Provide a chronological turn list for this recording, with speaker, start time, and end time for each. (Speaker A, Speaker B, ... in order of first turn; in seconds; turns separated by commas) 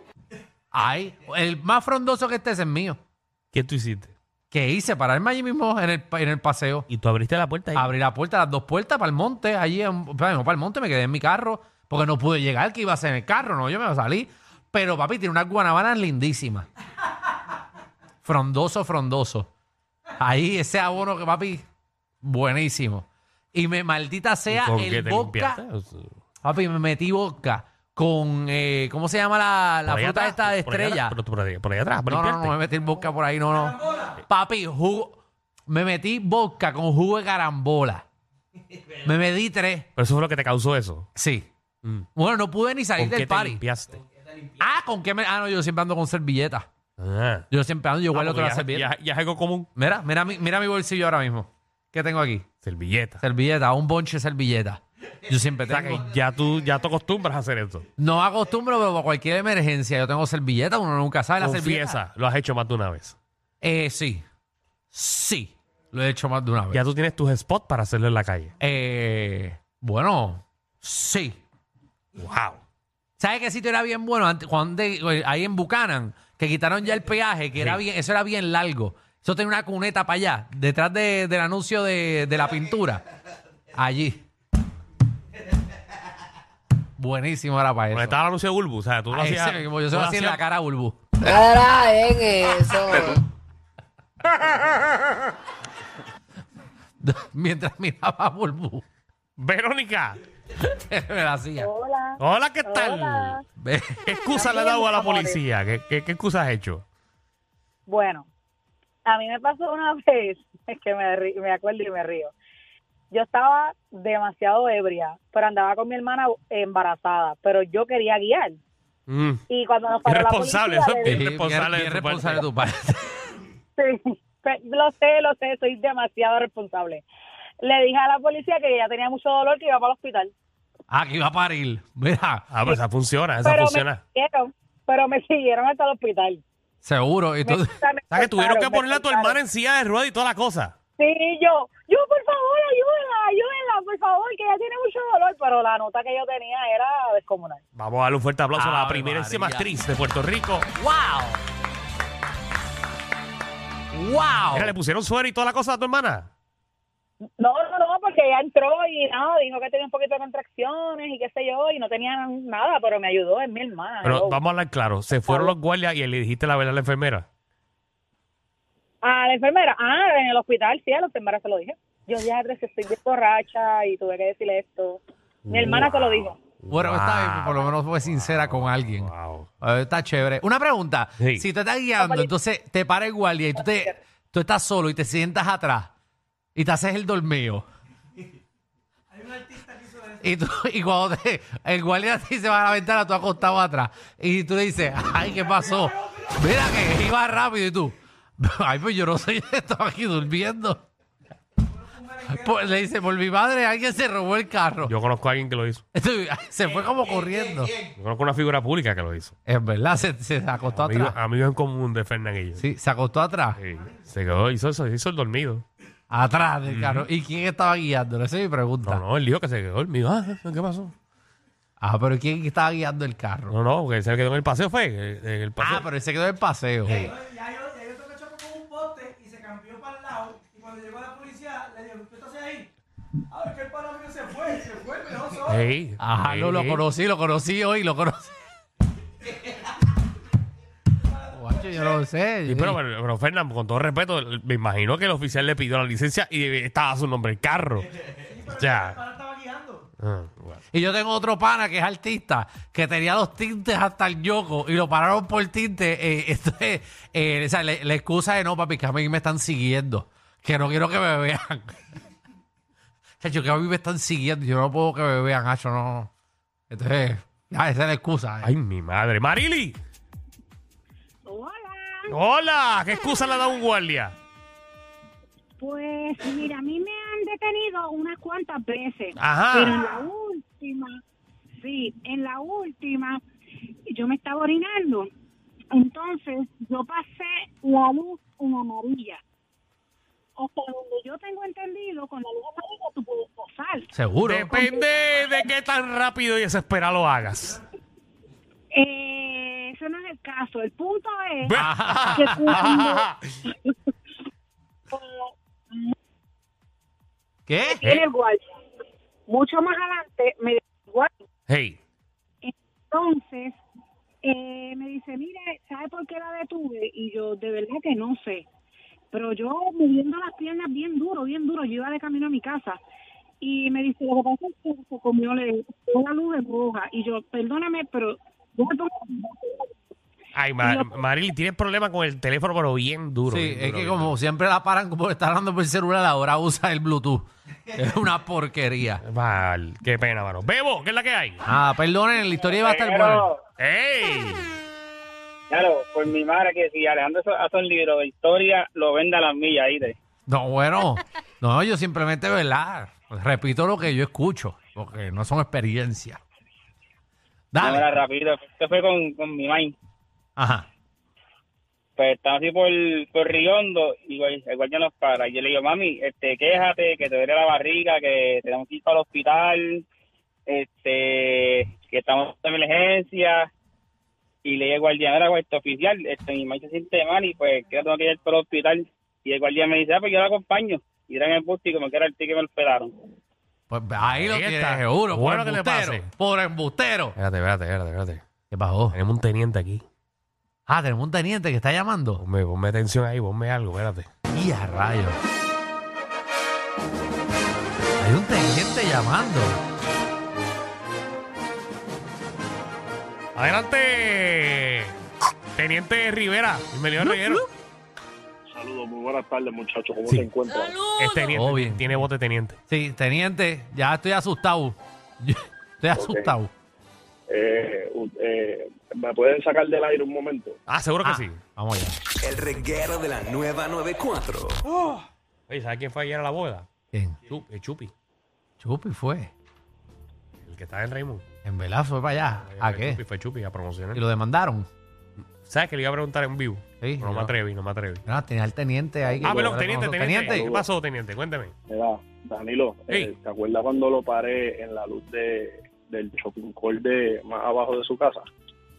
Speaker A: 0.7-3.0, Speaker B: 3.5-4.1, Speaker A: 4.5-6.9, Speaker B: 6.9-7.9, Speaker A: 7.7-16.7, Speaker A: 18.2-19.5, Speaker A: 20.2-21.6, Speaker A: 22.2-25.6, Speaker B: 24.5-26.1, Speaker A: 26.4-31.2, Speaker B: 29.9-32.5, Speaker A: 32.1-38.0, Speaker A: 39.0-39.9, Speaker B: 40.0-41.1, Speaker A: 41.2-41.5, Speaker A: 42.1-43.6, Speaker B: 43.0-44.0, Speaker A: 44.6-46.7, Speaker B: 47.0-47.5, Speaker A: 47.5-48.9, Speaker B: 48.1-49.7, Speaker A: 49.8-52.5, Speaker B: 52.6-53.2, Speaker A: 53.2-56.1, Speaker B: 55.6-57.9, Speaker A: 58.0-62.0, Speaker B: 61.4-63.2, Speaker A: 63.6-64.2, Speaker A: 64.9-66.8, Speaker B: 66.7-68.5, Speaker A: 68.6-71.4, Speaker B: 72.2-72.6, Speaker A: 73.2-83.0, Speaker A: 83.7-84.2, Speaker A: 87.0-88.2, Speaker B: 87.9-90.4, Speaker A: 89.1-91.5, Speaker C: 91.2-93.2, Speaker A: 97.0-98.8, Speaker B: 99.4-100.2, Speaker A: 100.7-101.7, Speaker D: 101.6-103.4, Speaker B: 102.2-103.4, Speaker A: 103.6-104.1, Speaker B: 104.0-106.8, Speaker D: 104.3-105.4, Speaker D: 107.9-108.3, Speaker D: 109.1-112.3, Speaker D: 113.1-118.6, Speaker B: 119.1-119.4, Speaker D: 119.5-121.2, Speaker B: 120.0-122.5, Speaker A: 121.0-123.4, Speaker D: 123.8-127.0, Speaker D: 127.6-130.3, Speaker A: 130.9-132.5, Speaker B: 132.5-134.0, Speaker D: 133.4-136.4, Speaker A: 136.8-137.8, Speaker D: 137.4-139.4, Speaker B: 138.1-140.8, Speaker D: 141.0-147.6, Speaker B: 147.8-150.7, Speaker A: 148.6-149.7, Speaker A: 150.8-151.4, Speaker A: 153.9-154.7, Speaker B: 154.5-156.3, Speaker D: 157.4-164.4, Speaker B: 164.0-167.3, Speaker D: 165.3-165.5, Speaker D: 169.0-176.4, Speaker B: 175.5-179.5, Speaker A: 176.7-185.9, Speaker D: 182.0-182.3, Speaker A: 186.6-187.6, Speaker A: 190.2-200.9, Speaker A: 202.3-204.9, Speaker B: 204.8-205.8, Speaker A: 205.9-207.8, Speaker B: 208.0-209.3, Speaker A: 209.5-211.2, Speaker B: 210.8-212.6, Speaker A: 212.6-213.6, Speaker B: 213.6-215.6, Speaker A: 216.1-219.0, Speaker B: 216.7-217.1, Speaker B: 218.8-220.9, Speaker A: 221.8-223.6, Speaker B: 223.5-225.9, Speaker A: 225.6-227.2, Speaker E: 227.4-232.5, Speaker E: 233.4-235.0, Speaker B: 235.4-236.8, Speaker A: 236.0-238.3, Speaker A: 241.3-242.8, Speaker B: 242.5-247.9, Speaker B: 248.4-249.0, Speaker E: 249.2-249.6, Speaker B: 250.0-250.6, Speaker A: 250.7-261.8, Speaker A: 263.2-266.1, Speaker A: 266.7-268.5, Speaker B: 268.4-269.8, Speaker F: 271.3-272.2, Speaker B: 272.1-274.1, Speaker F: 272.9-273.6, Speaker F: 275.6-281.0, Speaker B: 279.2-280.0, Speaker F: 281.6-283.2, Speaker F: 283.9-285.1, Speaker F: 285.7-289.2, Speaker F: 290.4-293.9, Speaker A: 293.9-294.6, Speaker B: 294.2-297.6, Speaker F: 294.5-294.8, Speaker F: 298.7-303.1, Speaker B: 301.5-303.1, Speaker A: 301.6-302.7, Speaker F: 304.9-305.9, Speaker A: 307.5-307.8, Speaker F: 307.6-308.4, Speaker F: 309.3-311.1, Speaker B: 311.5-311.8, Speaker F: 312.4-313.6, Speaker F: 314.2-318.5, Speaker F: 319.1-322.8, Speaker F: 323.4-329.7, Speaker B: 330.3-334.1, Speaker F: 330.6-331.0, Speaker A: 333.3-339.0, Speaker B: 339.0-341.4, Speaker A: 341.4-343.2, Speaker G: 342.6-343.4, Speaker B: 343.6-344.5, Speaker G: 345.5-350.0, Speaker A: 350.3-356.2, Speaker A: 357.5-357.8, Speaker G: 357.6-359.8, Speaker A: 360.4-360.7, Speaker G: 362.0-369.9, Speaker G: 370.5-373.5, Speaker G: 374.4-383.0, Speaker A: 383.7-387.2, Speaker B: 384.1-386.1, Speaker B: 387.2-388.2, Speaker A: 388.5-389.0, Speaker B: 388.9-389.8, Speaker A: 390.7-392.2, Speaker B: 392.2-394.1, Speaker A: 394.3-395.2, Speaker A: 398.0-399.6, Speaker B: 403.4-404.9, Speaker B: 405.6-407.4, Speaker A: 407.1-407.4, Speaker H: 408.5-410.8, Speaker B: 411.0-412.6, Speaker A: 411.3-412.1, Speaker A: 412.7-416.5, Speaker H: 415.9-416.4, Speaker H: 417.3-420.6, Speaker B: 420.7-421.4, Speaker A: 421.0-422.0, Speaker I: 422.2-424.6, Speaker B: 425.5-426.7, Speaker A: 426.9-427.2, Speaker B: 427.3-427.9, Speaker A: 428.6-429.3, Speaker B: 430.4-431.2, Speaker A: 431.4-433.0, Speaker B: 432.4-434.0, Speaker A: 433.9-434.7, Speaker B: 435.2-438.0, Speaker A: 436.8-437.3, Speaker A: 438.1-440.5, Speaker H: 439.0-439.6, Speaker B: 439.2-441.5, Speaker H: 440.2-440.7, Speaker H: 441.7-448.2